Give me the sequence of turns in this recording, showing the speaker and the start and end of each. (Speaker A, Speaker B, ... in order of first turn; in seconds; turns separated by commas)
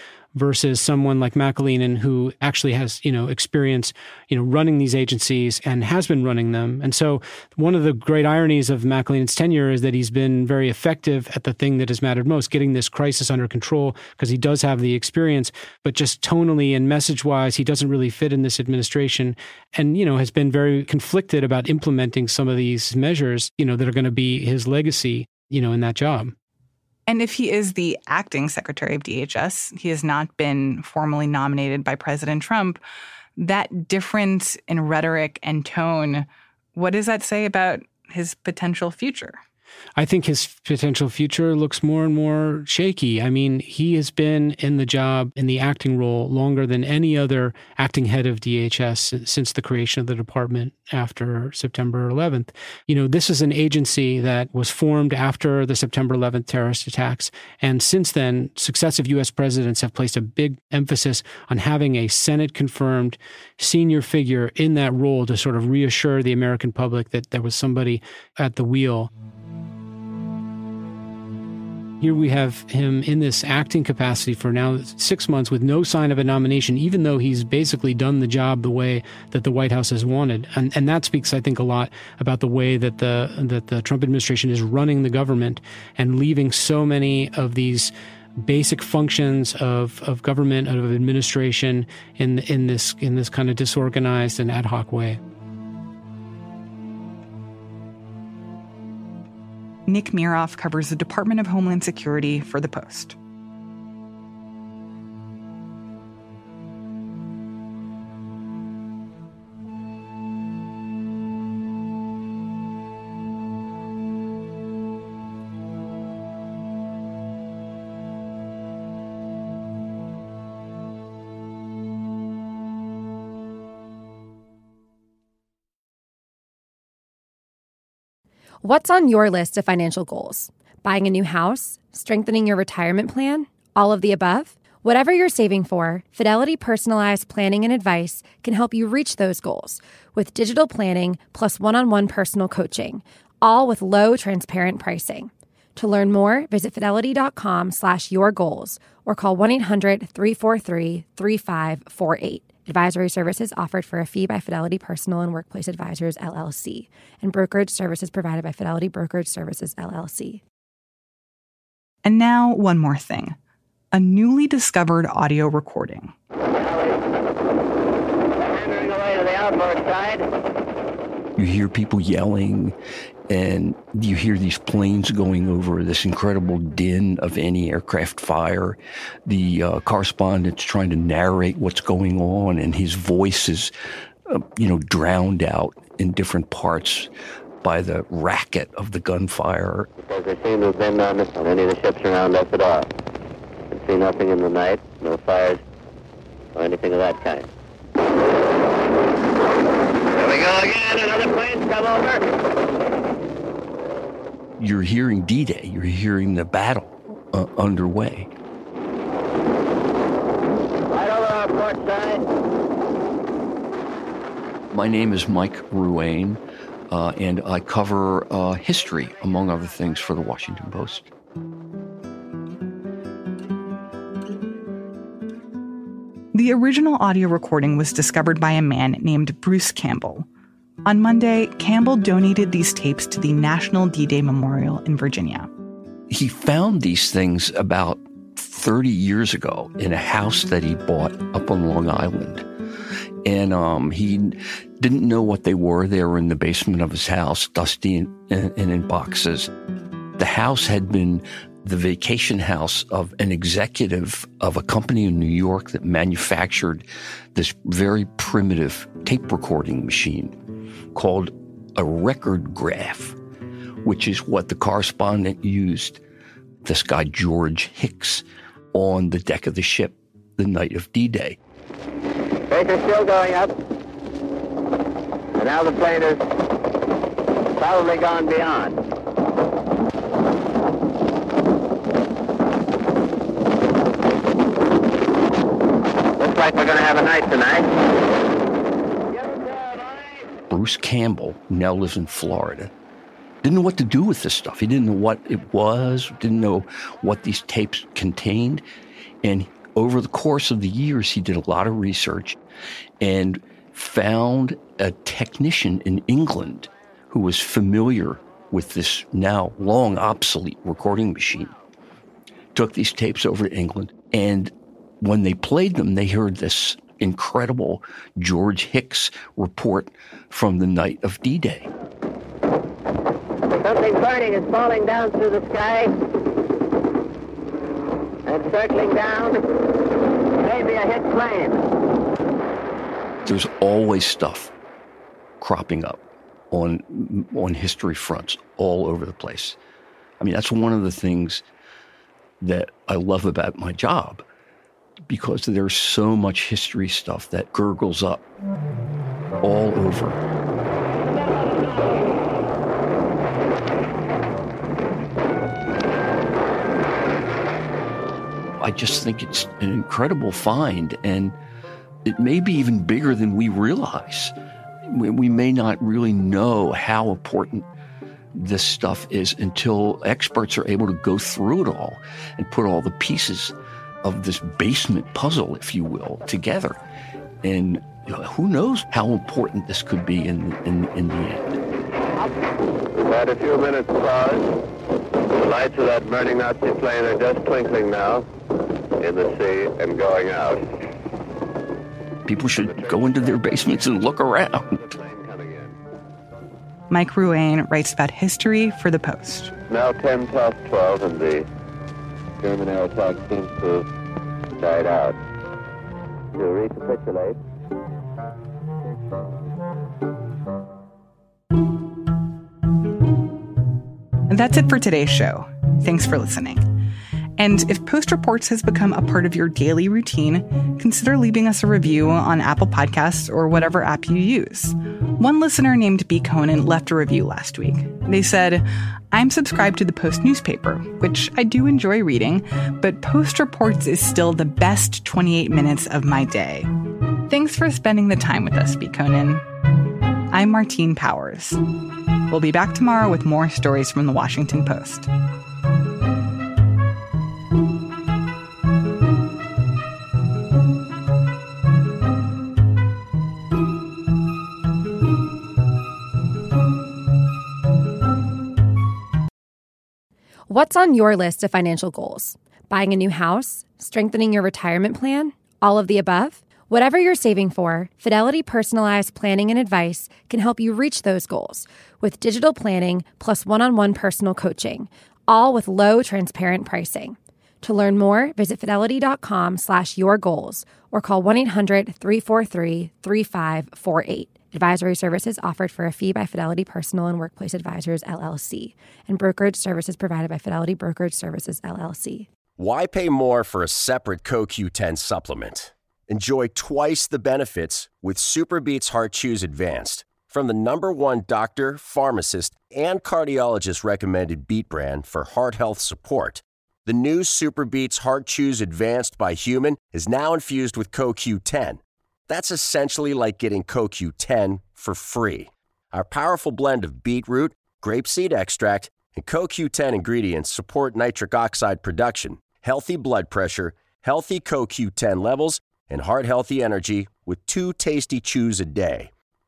Speaker A: 0.3-26.3, Speaker B: 27.1-32.8, Speaker B: 33.4-39.4, Speaker A: 40.0-69.1, Speaker A: 72.0-95.2, Speaker B: 99.9-103.2, Speaker C: 128.6-160.4, Speaker B: 162.0-163.3, Speaker B: 163.9-166.1, Speaker D: 166.5-167.1, Speaker D: 168.4-170.3, Speaker E: 171.4-172.7, Speaker E: 173.3-183.7, Speaker E: 184.3-187.1, Speaker E: 187.6-189.9, Speaker D: 190.0-192.9, Speaker D: 193.7-195.6, Speaker D: 196.6-197.5, Speaker D: 200.1-202.2, Speaker E: 204.6-208.3, Speaker D: 210.9-212.2, Speaker E: 214.7-221.1, Speaker B: 226.3-230.2, Speaker B: 230.8-235.5, Speaker E: 236.1-242.4, Speaker E: 243.2-249.5, Speaker E: 250.2-256.8, Speaker E: 257.3-260.4, Speaker E: 260.9-263.2, Speaker E: 263.8-266.0, Speaker E: 266.6-271.4, Speaker D: 272.5-273.5, Speaker D: 275.4-276.2, Speaker D: 277.6-278.8, Speaker D: 286.2-287.9, Speaker D: 289.1-290.3, Speaker E: 290.5-292.7, Speaker E: 293.4-298.6, Speaker E: 299.2-302.4, Speaker E: 303.0-311.5, Speaker E: 312.5-321.7, Speaker D: 323.5-325.9, Speaker D: 328.2-329.4, Speaker D: 330.4-331.6, Speaker E: 333.2-334.5, Speaker E: 335.4-339.6, Speaker E: 340.2-341.4, Speaker E: 342.4-344.2, Speaker E: 345.1-348.2, Speaker E: 349.4-350.2, Speaker E: 358.6-361.4, Speaker E: 362.1-364.3, Speaker E: 364.9-367.7, Speaker E: 368.4-376.8, Speaker E: 377.4-381.6, Speaker D: 382.9-384.5, Speaker D: 385.3-388.2, Speaker D: 389.0-390.6, Speaker E: 392.2-394.8, Speaker D: 392.3-394.1, Speaker D: 394.8-395.8, Speaker B: 396.9-399.5, Speaker D: 399.7-401.5, Speaker D: 402.4-403.9, Speaker D: 404.6-405.2, Speaker D: 406.3-407.4, Speaker B: 414.3-416.7, Speaker B: 417.4-436.7, Speaker B: 437.3-439.4, Speaker B: 440.3-441.6, Speaker B: 442.3-445.1, Speaker C: 460.5-492.3, Speaker F: 492.6-529.1